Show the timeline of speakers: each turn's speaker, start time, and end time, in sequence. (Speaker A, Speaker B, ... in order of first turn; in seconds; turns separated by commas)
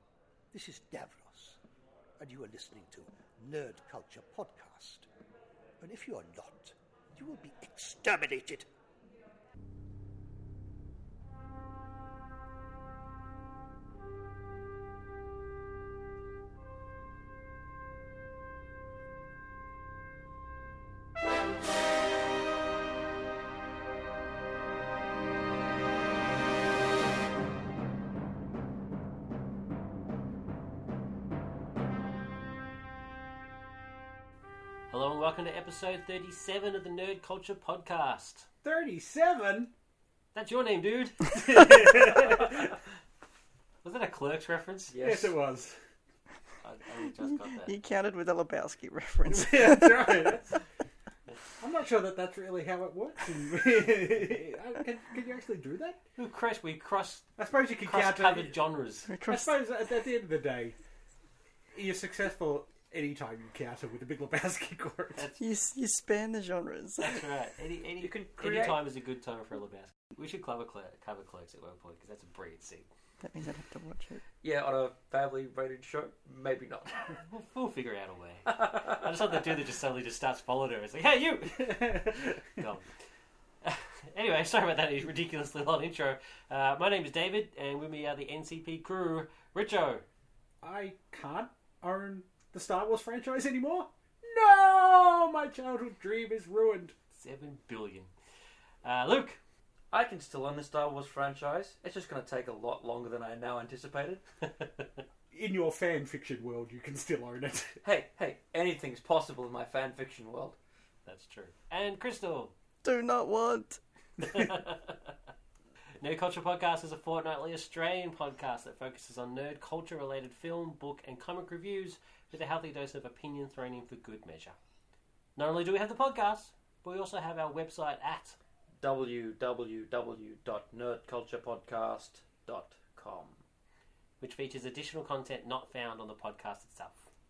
Speaker A: 0.5-1.6, Speaker A: 2.2-5.1, Speaker A: 5.8-8.7, Speaker B: 34.9-38.5, Speaker C: 38.6-39.7, Speaker B: 40.3-42.6, Speaker C: 41.5-42.5, Speaker B: 43.8-45.0, Speaker D: 44.9-45.4, Speaker C: 45.0-45.8, Speaker B: 46.6-47.7, Speaker E: 47.2-50.4, Speaker C: 49.3-50.6, Speaker C: 51.6-56.0, Speaker B: 56.2-57.3, Speaker C: 57.4-58.6, Speaker B: 57.8-59.1, Speaker E: 59.1-59.5, Speaker C: 59.2-60.8, Speaker C: 61.7-65.3, Speaker E: 65.4-67.3, Speaker B: 67.0-72.9, Speaker D: 68.0-68.8, Speaker E: 73.2-74.2, Speaker D: 74.4-77.2, Speaker B: 77.2-83.0, Speaker D: 78.5-79.0, Speaker C: 81.6-82.4, Speaker B: 83.6-90.0, Speaker C: 90.6-97.0, Speaker B: 97.1-98.1, Speaker B: 98.8-99.4, Speaker D: 99.9-104.2, Speaker B: 104.6-104.9, Speaker C: 105.3-107.8, Speaker D: 107.8-110.6, Speaker B: 111.0-112.5, Speaker E: 112.8-113.8, Speaker B: 114.2-115.1, Speaker B: 116.0-124.6, Speaker B: 125.4-128.4, Speaker D: 128.8-133.4, Speaker B: 134.2-137.1